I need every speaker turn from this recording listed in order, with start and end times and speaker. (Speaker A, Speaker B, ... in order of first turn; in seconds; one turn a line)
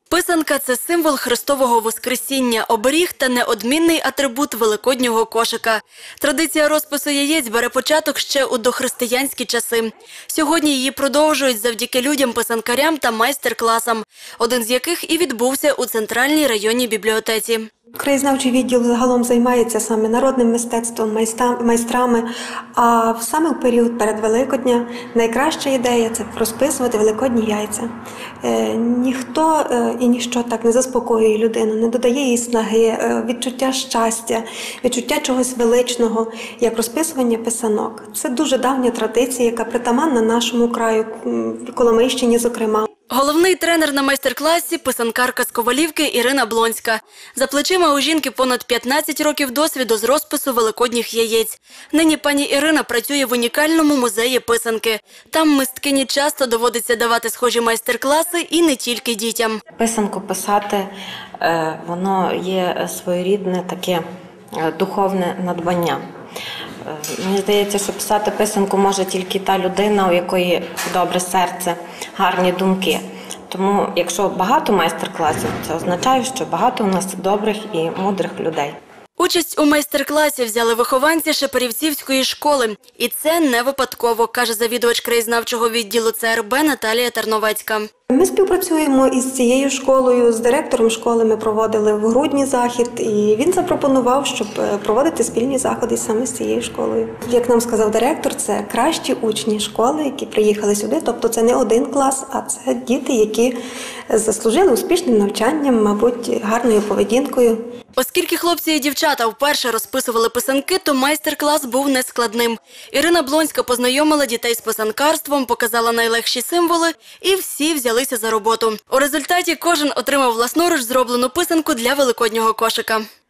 Speaker A: 0.1-17.7
Speaker B: 18.0-27.9
Speaker B: 28.4-42.9
Speaker A: 43.1-59.6
Speaker C: 59.8-64.0
Speaker C: 64.5-66.0
Speaker C: 66.8-78.8
Speaker A: 79.2-87.9
Speaker B: 88.1-103.5
Speaker B: 104.1-107.6
Speaker A: 108.0-123.0